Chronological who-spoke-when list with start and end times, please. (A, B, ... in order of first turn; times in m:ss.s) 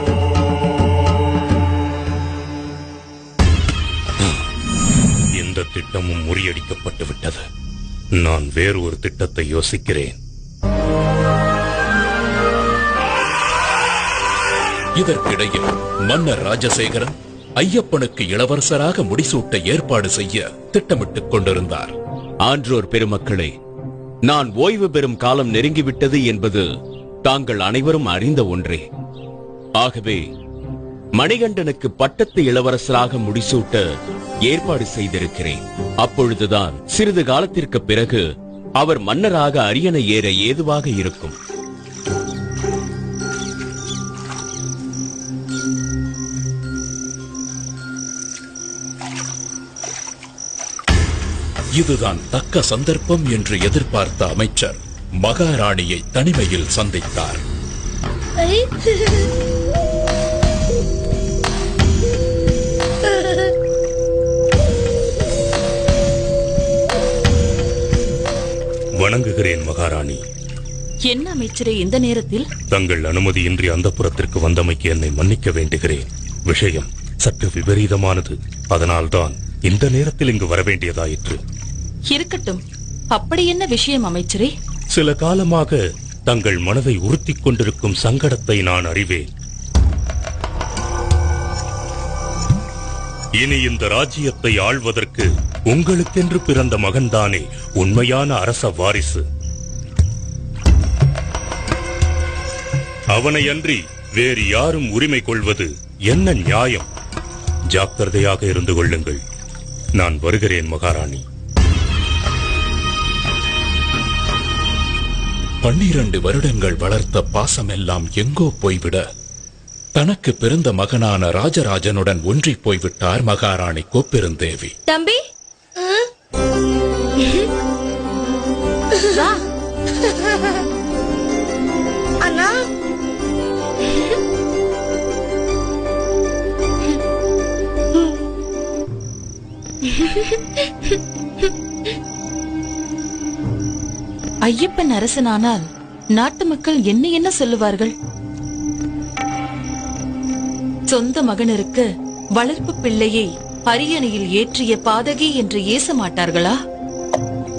0:05.4-0:07.4 A
0:08.2-0:10.2 A
0:15.0-0:22.0 B
0:22.4-0:23.5 C
0:24.3-0:26.7 C
0:27.2-0:28.8 C
0:29.8-0:30.2 C
0:31.2-0:33.9 C
0:34.5-0:38.2 C
0:38.8-0:41.4 C
0:51.8-0:57.4 B
1:09.0-1:10.2 A
1:11.1-1:12.5 D
1:12.7-1:21.4 A
1:22.1-1:24.5 D
1:24.9-1:29.3 A
1:33.4-1:39.2 A
1:43.1-1:46.9 A
1:47.7-1:49.2 A
1:50.0-1:51.2 A
1:55.6-1:59.0 B
2:00.0-2:04.8 B
2:24.4-2:27.9 D
2:30.9-2:31.8 D
2:32.4-2:36.6 D